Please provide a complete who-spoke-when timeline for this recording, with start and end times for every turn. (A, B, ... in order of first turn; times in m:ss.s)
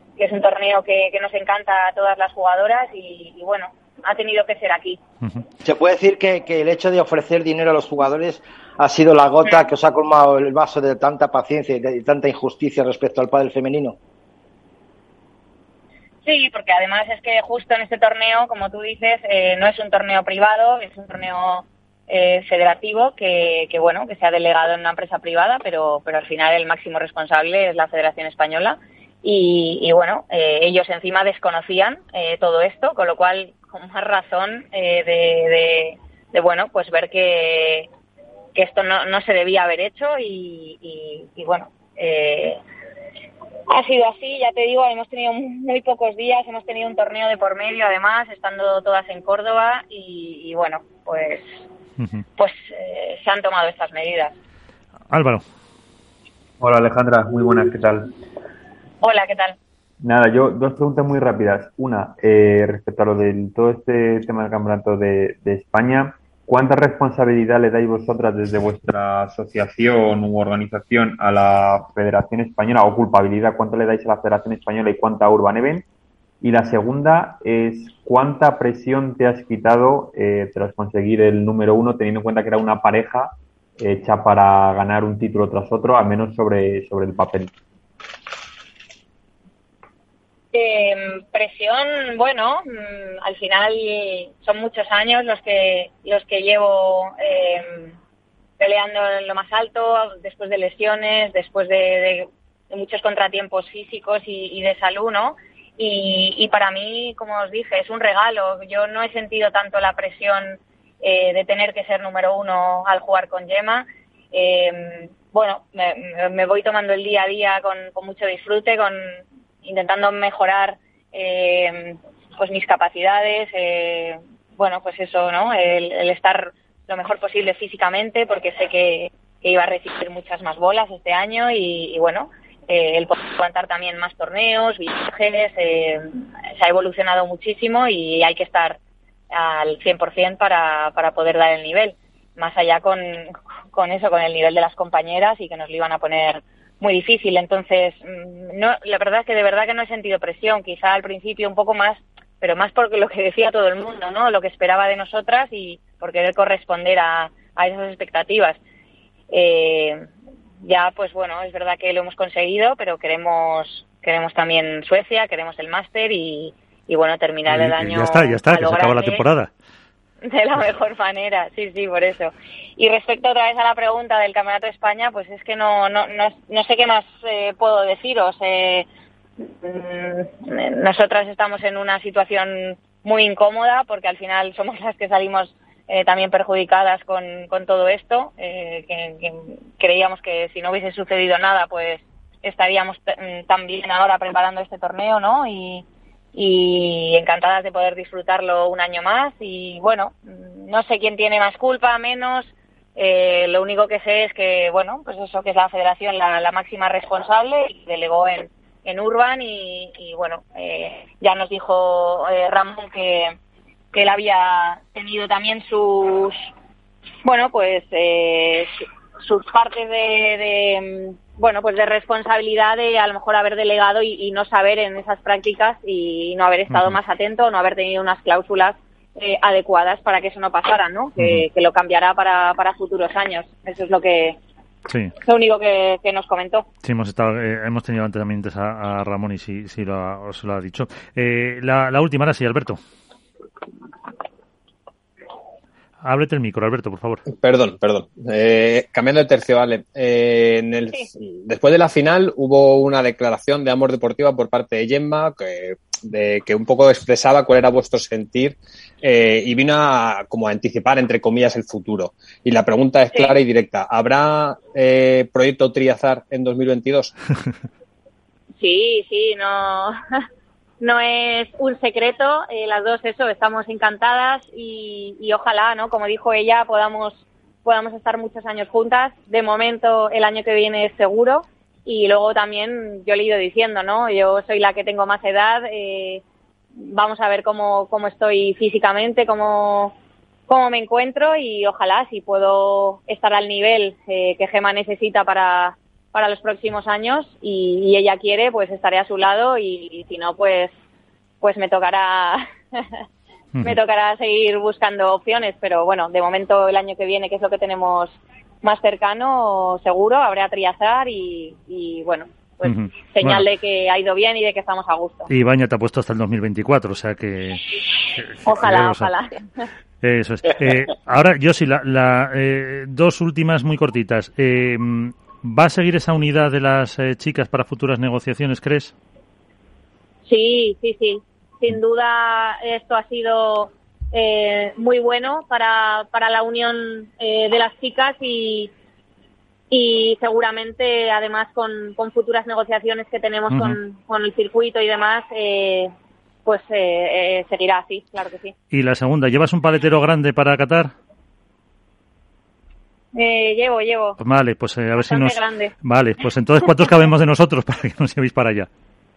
0:00.2-0:05.0 A
0:05.6-0:14.0 B
0:16.2-0:37.9 A
0:38.6-0:42.6 A
0:43.7-0:51.6 A
0:52.4-0:54.4 A
0:55.1-0:55.4 C
0:56.6-0:58.1 D
0:59.0-0:59.6 A
1:00.0-1:15.9 D
1:16.4-1:27.5 D
1:30.5-1:38.0 A
1:38.6-2:18.8 A
2:19.3-2:38.6 A
2:39.3-2:40.1 A
2:40.6-2:49.2 A
2:47.5-2:49.5 C
2:50.2-2:58.9 A
2:59.4-3:33.4 A
3:33.9-3:36.5 A
3:37.2-3:54.4 A
3:46.7-3:47.0 C
3:51.2-3:51.4 C
3:54.9-3:55.2 C
3:55.2-3:56.7 A
3:56.8-4:02.8 C
4:06.0-4:07.2 C
4:07.4-4:27.1 E
4:28.6-4:29.9 A
4:30.8-4:46.2 A
4:46.8-4:50.0 A
4:50.5-5:00.7 A
5:01.4-5:03.0 A
5:03.6-5:15.3 A
5:12.6-5:13.5 C
5:15.3-5:19.1 C
5:18.4-5:19.6 A
5:20.0-5:28.9 C
5:30.3-5:38.7 A
5:39.7-5:45.9 A
5:43.5-5:43.8 C
5:46.4-5:48.5 A
5:48.7-5:50.9 C
5:53.1-5:54.2 A
5:54.2-5:58.7 C
5:55.0-5:55.8 A